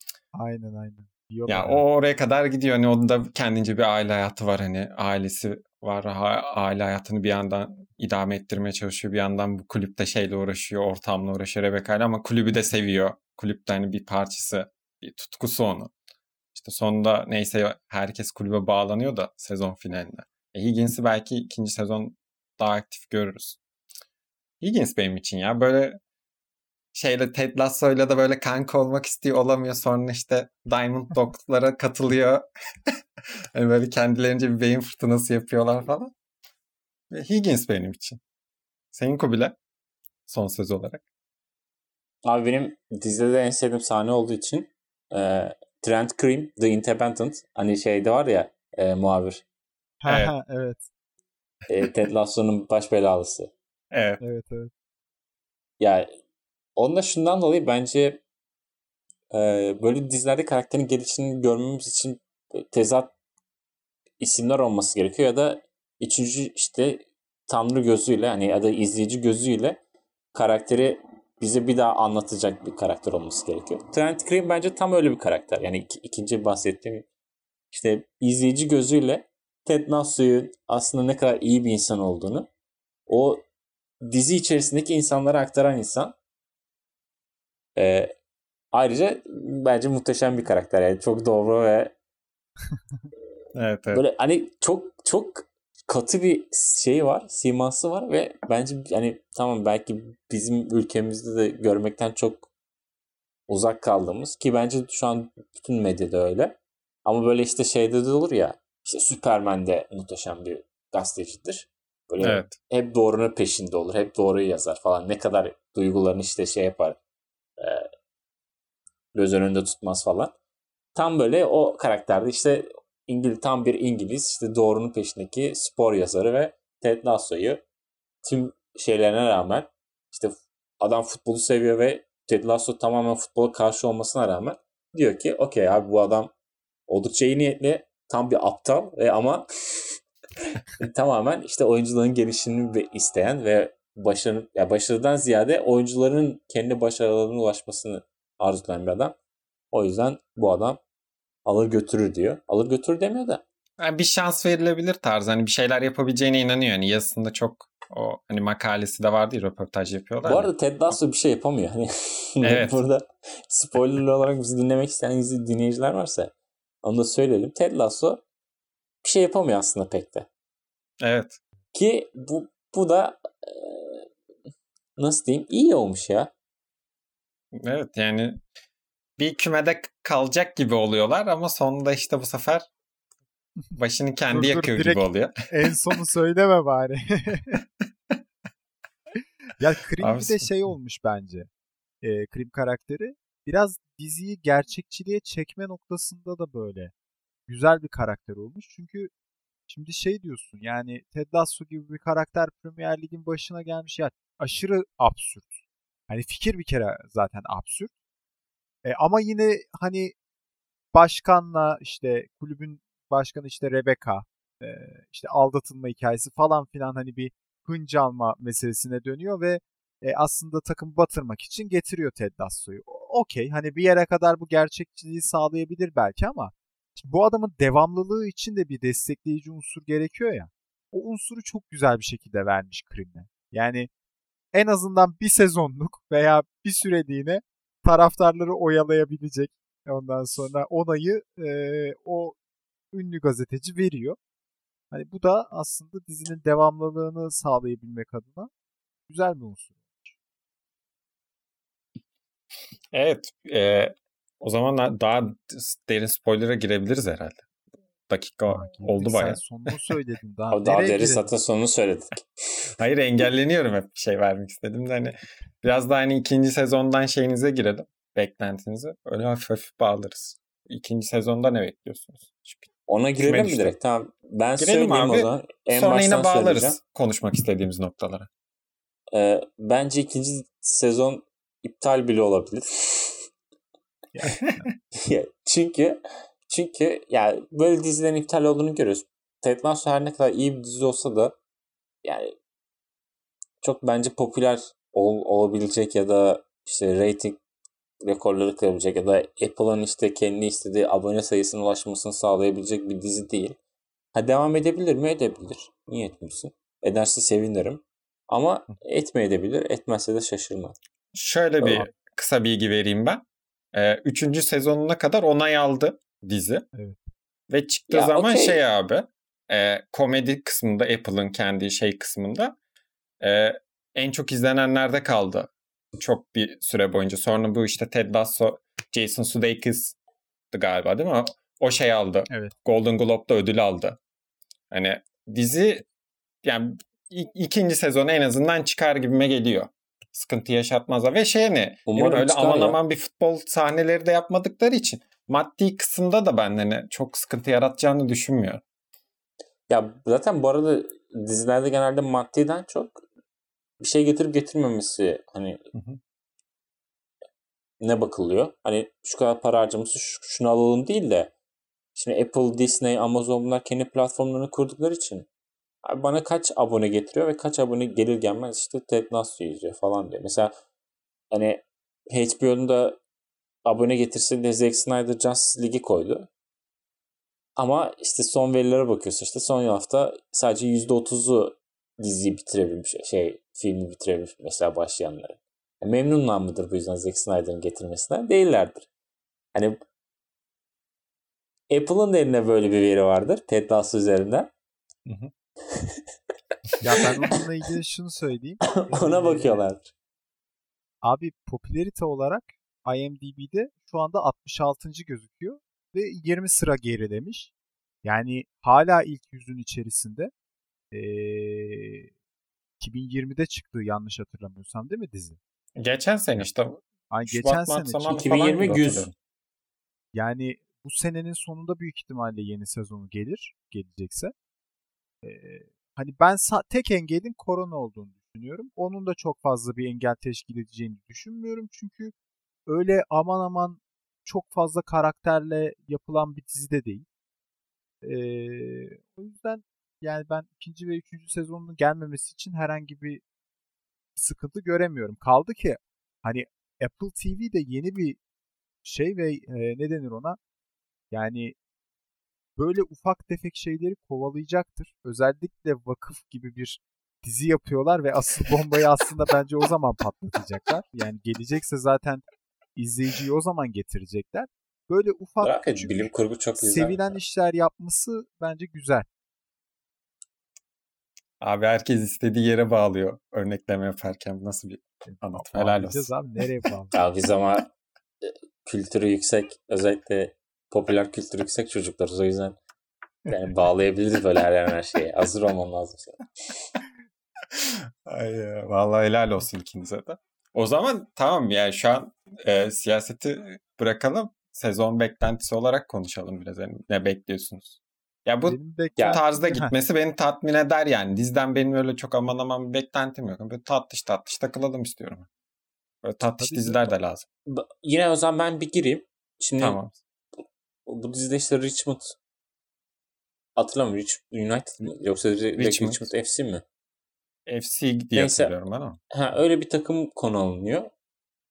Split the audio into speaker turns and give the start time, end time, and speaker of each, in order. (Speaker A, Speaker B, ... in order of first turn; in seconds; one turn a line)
Speaker A: 0.3-1.8
Speaker B: 1.5-15.9
Speaker B: 16.5-23.6
Speaker B: 24.6-26.0
Speaker B: 26.9-32.9
Speaker B: 33.5-36.1
Speaker B: 37.1-38.2
Speaker B: 38.9-39.5
Speaker B: 40.3-41.0
Speaker C: 42.2-49.4
Speaker A: 50.0-50.9
Speaker B: 50.1-50.3
Speaker C: 51.7-53.5
Speaker B: 53.9-54.2
Speaker A: 54.2-54.7
Speaker C: 55.8-56.1
Speaker C: 56.8-58.2
Speaker C: 59.3-63.1
Speaker C: 64.2-69.8
Speaker C: 70.3-77.1
Speaker C: 77.7-82.5
Speaker C: 83.1-83.4
Speaker C: 84.0-86.2
Speaker C: 87.8-88.1
Speaker C: 88.7-91.9
Speaker B: 93.5-94.0
Speaker C: 93.9-102.5
Speaker C: 103.5-117.0
Speaker B: 112.2-112.5
Speaker C: 117.6-117.9
Speaker C: 119.2-120.3
Speaker C: 121.0-127.6
Speaker C: 128.2-136.3
Speaker C: 136.9-140.0
Speaker C: 140.8-149.2
Speaker C: 149.7-150.8
Speaker C: 151.4-153.4
Speaker B: 153.8-160.5
Speaker C: 160.2-168.2
Speaker B: 162.4-162.8
Speaker C: 169.0-170.3
Speaker B: 171.0-171.4
Speaker C: 171.7-174.1
Speaker C: 175.0-176.3
Speaker B: 177.5-178.4
Speaker B: 179.2-182.7
Speaker B: 183.8-185.3
Speaker A: 184.3-187.6
Speaker A: 189.6-191.5
Speaker B: 190.0-190.5
Speaker A: 192.0-196.9
Speaker A: 197.5-199.1
Speaker A: 199.7-207.9
Speaker A: 208.8-210.1
Speaker A: 210.9-233.9
Speaker A: 234.5-242.4
Speaker A: 242.9-244.2
Speaker A: 244.9-248.5
Speaker A: 249.1-250.2
Speaker B: 252.9-257.4
Speaker B: 258.1-259.4
Speaker A: 258.5-261.3
Speaker C: 260.5-262.8
Speaker B: 262.8-272.7
Speaker C: 272.9-276.8
Speaker B: 273.2-273.7
Speaker B: 274.6-278.3
Speaker C: 279.1-283.3
Speaker A: 284.1-284.7
Speaker C: 284.9-291.4
Speaker C: 292.0-292.3
Speaker C: 293.6-297.4
Speaker C: 298.0-303.6
Speaker C: 304.1-310.8
Speaker B: 311.1-313.2
Speaker B: 313.7-316.6
Speaker B: 317.5-322.6
Speaker C: 317.9-318.6
Speaker B: 323.2-329.9
Speaker B: 330.5-334.0
Speaker B: 334.7-335.9
Speaker B: 336.4-348.6
Speaker C: 341.9-342.8
Speaker C: 349.7-353.0
Speaker C: 353.8-355.6
Speaker B: 355.8-356.0
Speaker C: 357.8-361.3
Speaker C: 362.0-365.3
Speaker C: 365.8-370.5
Speaker C: 371.3-373.0
Speaker C: 373.6-376.3
Speaker C: 377.6-388.9
Speaker C: 389.5-389.8
Speaker C: 391.7-394.5
Speaker B: 395.1-395.3
Speaker C: 395.7-396.0
Speaker A: 396.8-399.6
Speaker C: 398.7-399.9
Speaker A: 401.0-407.5
Speaker A: 408.0-410.3
Speaker A: 410.9-412.1
Speaker A: 412.8-415.4
Speaker B: 415.8-419.1
Speaker A: 417.1-418.3
Speaker C: 418.1-419.1
Speaker A: 420.1-424.3
Speaker A: 425.2-432.1
Speaker A: 432.7-437.1
Speaker A: 438.0-443.2
Speaker A: 444.2-448.2
Speaker A: 448.8-450.4
Speaker A: 451.1-451.6
Speaker A: 452.6-462.2
Speaker A: 462.8-469.1
Speaker C: 465.4-467.2
Speaker B: 471.4-476.1
Speaker A: 475.1-476.9
Speaker C: 476.9-477.7
Speaker C: 478.2-482.6
Speaker C: 483.3-486.7
Speaker B: 487.5-505.3
Speaker A: 498.5-499.7
Speaker B: 506.0-507.3
Speaker A: 506.4-506.9
Speaker C: 507.5-509.8
Speaker B: 509.6-509.9
Speaker C: 510.9-512.2
Speaker C: 513.6-516.6
Speaker B: 515.6-516.1
Speaker B: 517.5-519.0
Speaker C: 518.1-518.5
Speaker C: 519.1-520.9